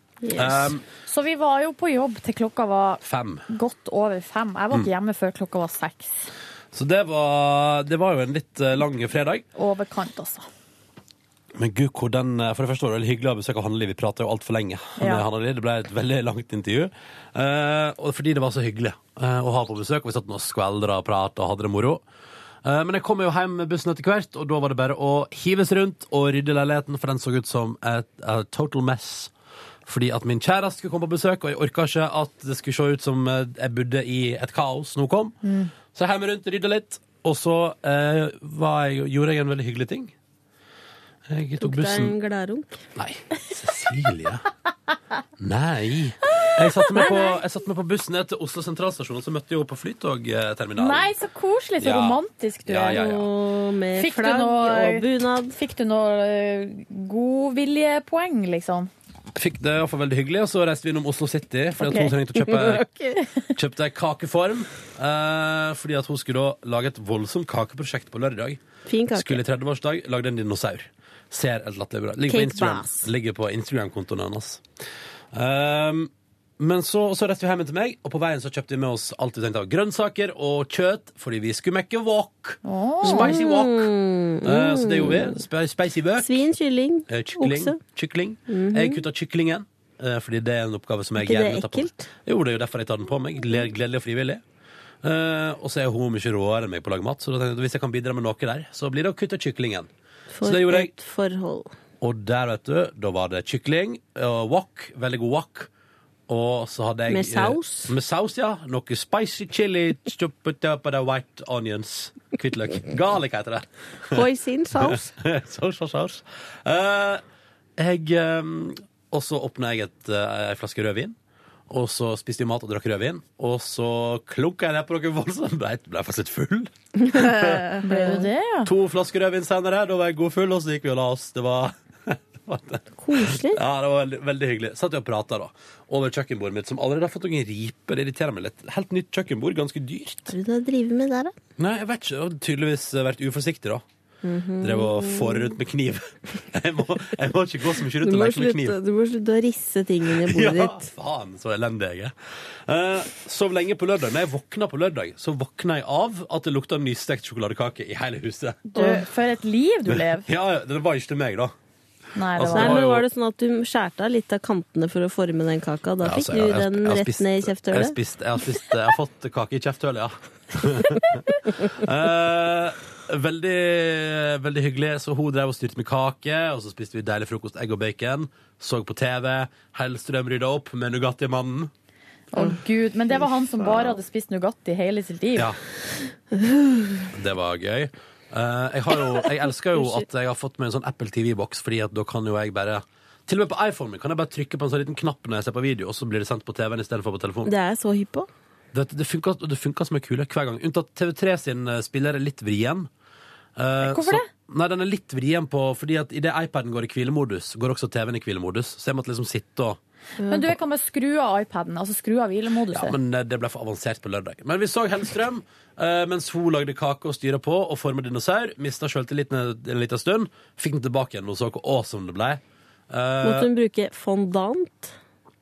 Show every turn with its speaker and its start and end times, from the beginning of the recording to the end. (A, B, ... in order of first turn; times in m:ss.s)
0:00.2-0:00.7 A
0:00.4-0:00.8 B
0:01.1-0:06.3 C
0:03.0-0:03.4 B
0:06.7-0:09.4 B
0:09.6-0:10.5 C
0:11.6-0:22.0 B
0:15.0-0:15.2 C
0:22.6-0:29.3 B
0:29.9-0:40.1 B
0:35.4-0:35.7 C
0:41.3-0:42.2 B
0:41.6-0:42.8 A
0:43.0-0:44.5 B
0:45.4-0:51.1 B
0:47.0-0:47.4 C
0:50.8-0:53.0 C
0:51.8-0:53.3 B
0:52.8-0:55.6 A
0:54.0-0:58.9 C
0:59.4-1:02.9 B
1:01.9-1:02.1 C
1:01.9-1:03.2 A
1:03.6-1:08.6 B
1:08.9-1:09.4 A
1:09.1-1:14.6 B
1:12.3-1:13.1 A
1:15.3-1:23.9 B
1:22.6-1:23.4 C
1:23.0-1:25.4 A
1:24.4-1:26.4 B
1:26.2-1:27.8 A
1:27.1-1:34.4 B
1:28.5-1:29.0 A
1:31.2-1:32.1 A
1:35.0-1:39.9 B
1:40.3-1:41.7 A
1:40.4-1:40.9 B
1:42.0-1:45.7 B
1:46.3-1:54.2 B
1:47.1-1:48.0 A
1:54.1-1:55.1 A
1:54.8-1:57.2 B
1:57.8-2:01.2 B
2:01.7-2:07.8 B
2:07.8-2:08.7 C
2:07.9-2:08.2 A
2:08.6-2:20.3 B
2:13.0-2:13.6 A
2:20.3-2:21.3 A
2:21.6-2:23.8 B
2:24.2-2:25.6 A
2:24.6-2:28.8 B
2:28.0-2:30.9 A
2:30.0-2:32.1 B
2:32.7-2:38.7 B
2:38.7-2:40.3 C
2:38.8-2:39.0 A
2:40.2-2:41.5 B
2:42.2-2:42.8 C
2:42.4-2:43.1 B
2:42.5-2:48.0 A
2:46.0-3:01.7 B
3:02.3-3:05.5 C
3:06.3-3:07.1 A
3:07.1-3:17.5 B
3:17.4-3:18.3 A
3:18.7-3:22.9 B
3:23.6-3:29.8 B
3:23.8-3:24.3 C
3:30.2-3:30.5 A
3:30.3-3:33.0 C
3:32.7-3:43.5 B
3:43.2-3:45.0 A